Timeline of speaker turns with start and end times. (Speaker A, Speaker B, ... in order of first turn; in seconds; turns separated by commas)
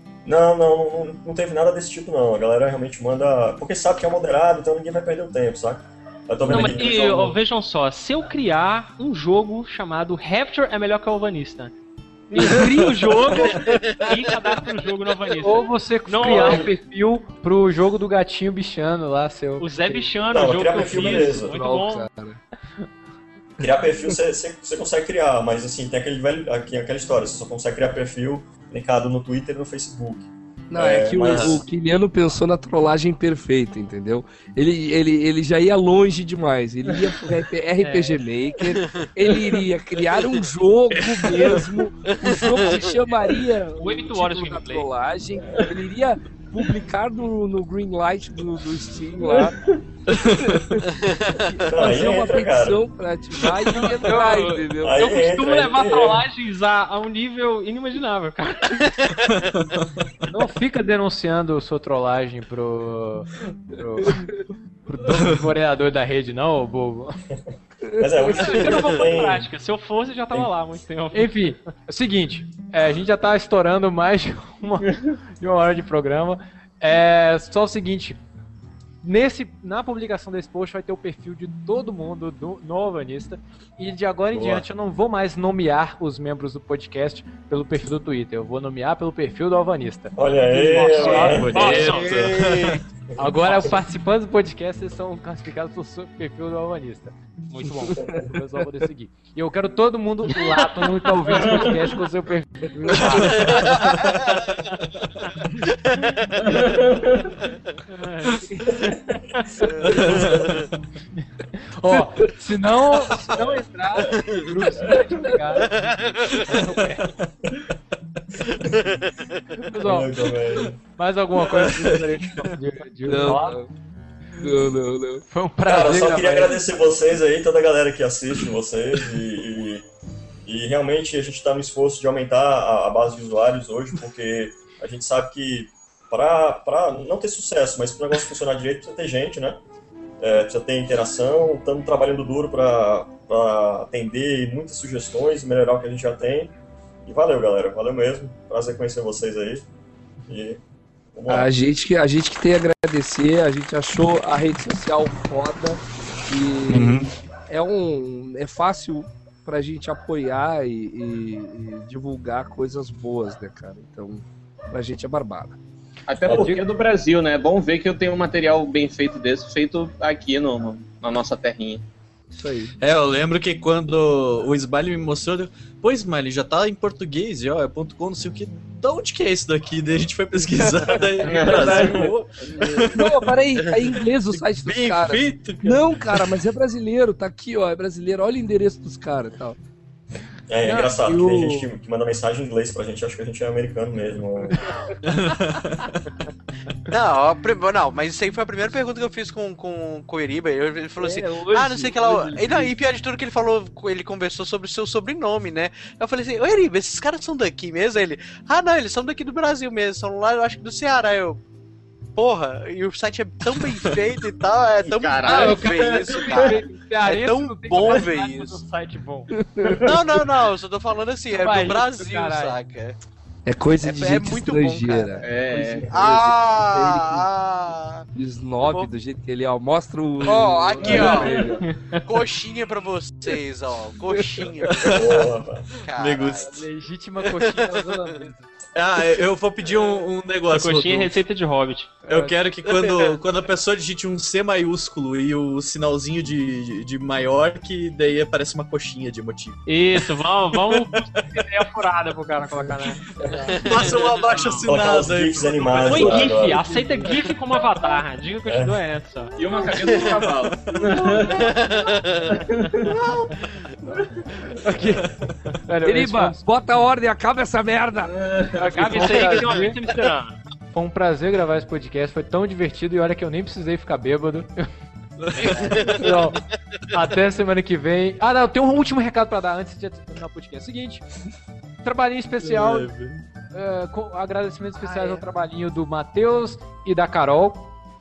Speaker A: 0.2-7.4, Speaker B: 6.5-11.7, Speaker C: 12.3-12.6, Speaker B: 12.4-16.7, Speaker D: 15.4-20.1, Speaker A: 16.2-16.7, Speaker B: 19.6-22.1, Speaker A: 20.3-21.6, Speaker E: 20.8-22.4, Speaker A: 23.6-31.6, Speaker E: 30.7-49.5, Speaker F: 31.3-31.6, Speaker B: 37.8-38.2, Speaker G: 38.7-39.1, Speaker G: 42.1-43.0, Speaker B: 43.8-44.9, Speaker C: 49.2-49.7, Speaker F: 50.1-50.7, Speaker E: 50.4-55.1, Speaker G: 51.0-51.7, Speaker A: 51.7-52.8, Speaker B: 53.8-58.8, Speaker A: 54.8-56.3, Speaker F: 59.6-59.9, Speaker D: 60.3-64.3, Speaker E: 64.0-64.3, Speaker D: 64.9-67.2, Speaker E: 67.8-69.0, Speaker A: 68.0-69.5, Speaker B: 68.4-71.5, Speaker D: 71.1-78.2, Speaker D: 79.0-92.0, Speaker F: 84.3-84.6, Speaker A: 90.2-93.7, Speaker B: 90.8-92.3, Speaker F: 91.4-92.8, Speaker D: 93.2-97.2, Speaker B: 97.5-98.0, Speaker D: 97.9-103.7, Speaker E: 102.8-103.7, Speaker F: 103.0-104.0, Speaker C: 106.5-107.2, Speaker B: 107.9-108.4, Speaker F: 109.9-110.7, Speaker A: 109.9-110.4, Speaker D: 111.2-115.7, Speaker G: 115.6-116.5, Speaker D: 116.4-117.1, Speaker D: 119.6-120.1, Speaker A: 119.8-120.8, Speaker D: 121.0-123.6, Speaker F: 121.6-121.8, Speaker E: 123.1-123.7, Speaker E: 124.4-125.2, Speaker D: 125.3-126.7, Speaker A: 125.7-129.8, Speaker A: 130.5-139.6, Speaker A: 140.2-146.5, Speaker A: 147.1-149.6, Speaker A: 150.3-150.6, Speaker A: 151.1-151.5, Speaker E: 151.3-165.6, Speaker F: 156.7-157.1, Speaker C: 166.1-171.8, Speaker A: 166.2-166.5, Speaker D: 166.3-166.6, Speaker E: 172.3-172.7, Speaker F: 172.8-183.3, Speaker E: 180.5-189.6, Speaker C: 181.2-182.1, Speaker F: 184.3-186.2, Speaker A: 190.5-194.7, Speaker D: 190.6-191.7, Speaker E: 191.0-191.3, Speaker F: 195.1-196.0, Speaker G: 196.9-211.4, Speaker E: 201.0-202.8, Speaker G: 212.2-218.6, Speaker C: 214.9-216.6, Speaker D: 215.3-219.3, Speaker E: 219.3-219.8, Speaker C: 219.7-220.1, Speaker G: 219.8-222.9, Speaker D: 221.3-222.6, Speaker E: 223.5-225.2, Speaker G: 223.8-225.2, Speaker C: 225.2-225.9, Speaker E: 225.9-227.2, Speaker G: 225.9-228.1, Speaker E: 228.1-231.7, Speaker G: 228.6-228.9, Speaker G: 230.2-236.7, Speaker D: 230.9-231.3, Speaker B: 231.6-232.0, Speaker E: 234.1-234.7, Speaker F: 234.7-236.5, Speaker A: 234.9-235.7, Speaker D: 236.4-238.5, Speaker G: 237.3-238.2, Speaker F: 238.8-241.2, Speaker B: 240.5-241.9, Speaker D: 242.0-242.4, Speaker F: 242.1-251.0, Speaker G: 242.7-243.1, Speaker B: 249.7-254.7, Speaker F: 253.5-256.3, Speaker A: 254.7-256.6, Speaker B: 255.8-259.4, Speaker A: 258.5-258.8, Speaker C: 259.4-261.5, Speaker G: 259.8-260.2, Speaker F: 260.0-260.7, Speaker G: 261.3-262.3, Speaker C: 262.3-262.9, Speaker F: 262.9-263.3, Speaker D: 264.6-265.1, Speaker F: 265.1-265.3, Speaker D: 265.7-266.4, Speaker E: 265.8-268.3, Speaker C: 268.1-268.6, Speaker D: 268.6-269.8, Speaker B: 268.6-270.4, Speaker E: 268.9-269.7, Speaker D: 270.7-274.7, Speaker F: 275.2-275.7, Speaker G: 275.4-276.3, Speaker D: 275.4-276.3, Speaker D: 276.9-281.1, Speaker D: 281.8-282.9, Speaker F: 282.4-283.2, Speaker D: 283.5-287.7, Speaker E: 284.7-285.2